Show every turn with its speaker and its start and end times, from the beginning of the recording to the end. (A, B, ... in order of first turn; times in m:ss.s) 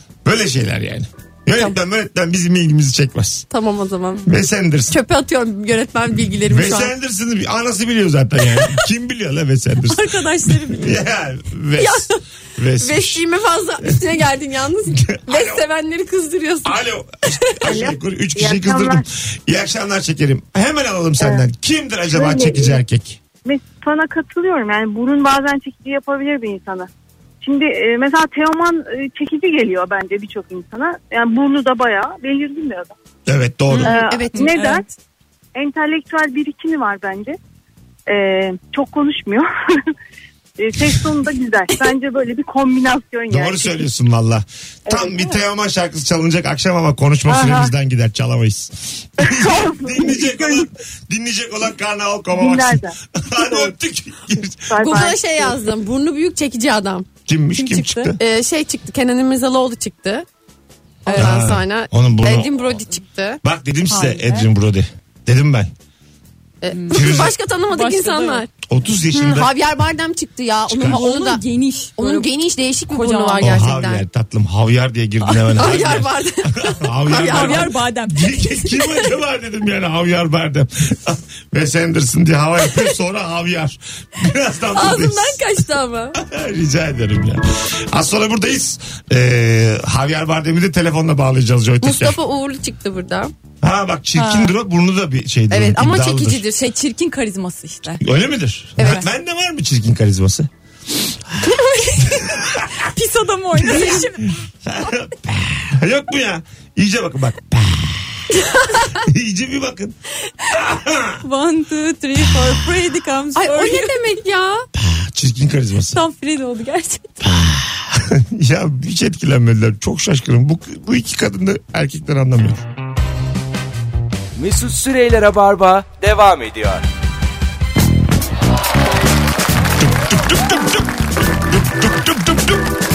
0:00.2-0:03.5 A
0:03.5-0:04.3 B
0:04.2-0:05.0 A
0:04.9-0:06.9 B
0:06.5-0:13.2 A
0:09.8-0:11.0 C
0:11.8-0:12.2 B
0:12.8-0:17.7 B
0:13.8-0:14.1 A
0:14.9-0:15.6 A
0:16.6-0:23.2 A
0:17.7-0:19.0 D
0:21.2-0:21.4 D
0:22.1-0:22.8 D
0:23.4-0:26.9 D
0:27.4-0:33.0 D
0:33.3-0:34.0 A
0:33.7-0:34.6 B
0:33.7-0:34.8 C
0:33.8-0:34.9 D
0:35.6-0:37.4 D
0:38.1-0:39.9 D
0:40.6-0:43.8 D
0:43.3-0:55.0 A
0:44.9-0:45.4 D
0:47.3-0:47.7 D
0:49.2-0:50.7 D
0:52.3-0:53.7 D
0:54.7-0:55.6 D
0:54.8-0:57.1 B
0:57.3-0:58.2 A
0:57.6-0:58.2 C
0:58.2-1:00.3 B
1:01.0-1:01.5 C
1:01.1-1:03.4 B
1:01.2-1:02.5 A
1:03.4-1:05.7 A
1:03.9-1:04.5 C
1:06.6-1:08.5 B
1:06.7-1:08.7 C
1:06.9-1:07.3 A
1:08.7-1:09.6 A
1:09.1-1:11.4 B
1:10.7-1:11.0 A
1:10.8-1:12.3 C
1:12.0-1:14.0 B
1:12.9-1:13.6 C
1:13.4-1:25.4 A
1:15.2-1:15.5 C
1:15.6-1:17.8 B
1:17.1-1:19.1 C
1:24.7-1:26.2 B
1:26.2-1:32.2 A
1:31.8-1:33.3 B
1:33.6-1:36.4 A
1:34.2-1:34.6 C
1:35.5-1:36.6 B
1:36.5-1:38.0 C
1:38.0-1:40.5 A
1:38.8-1:39.0 B
1:41.1-1:41.4 A
1:41.4-1:44.3 C
1:42.0-1:42.9 A
1:43.6-1:44.1 B
1:43.6-1:50.0 A
1:50.5-1:51.2 A
1:51.2-1:54.0 C
1:53.4-1:54.6 B
1:54.8-1:56.0 A
1:55.9-1:57.1 C
1:57.2-2:02.6 A
2:04.4-2:06.8 E
2:10.0-2:10.9 A
2:11.4-2:12.6 A